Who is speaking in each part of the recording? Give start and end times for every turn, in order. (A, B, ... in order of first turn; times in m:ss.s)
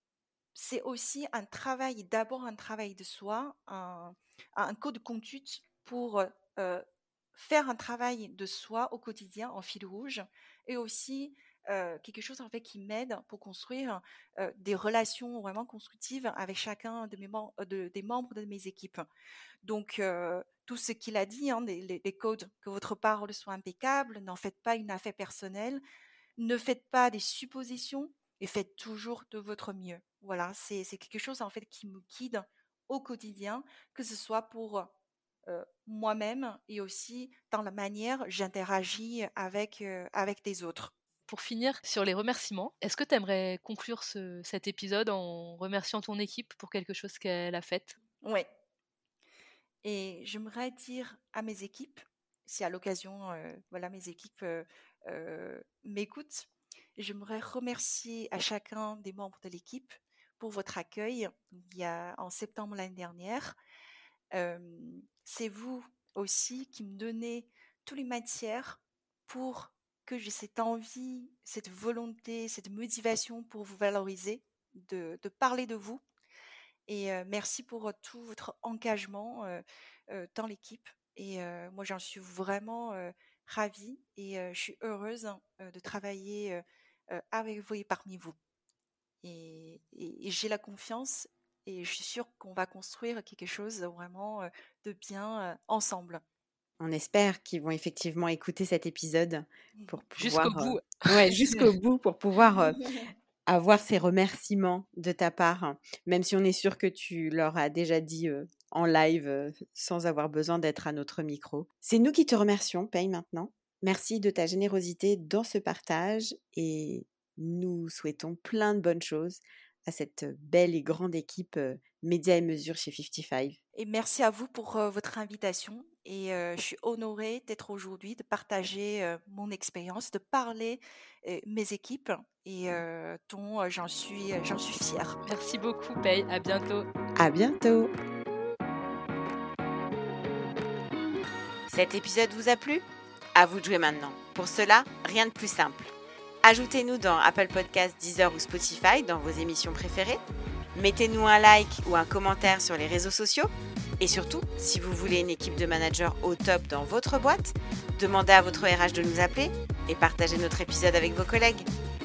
0:00.5-0:19.0 A
0:19.6-0:25.8 A
0:26.4-0:34.9 A
0:35.5-0:40.9 A
0:41.3-0:48.0 B
0:49.8-1:03.5 A
1:04.3-1:16.0 A
1:16.9-1:28.3 A
1:29.2-1:36.2 A
1:36.8-2:03.6 C
1:40.2-1:41.7 B
2:03.8-2:15.2 A
2:15.2-2:16.9 B
2:17.2-2:17.9 C
2:21.7-2:25.9 C
2:26.4-2:30.2 C
2:30.7-2:41.7 C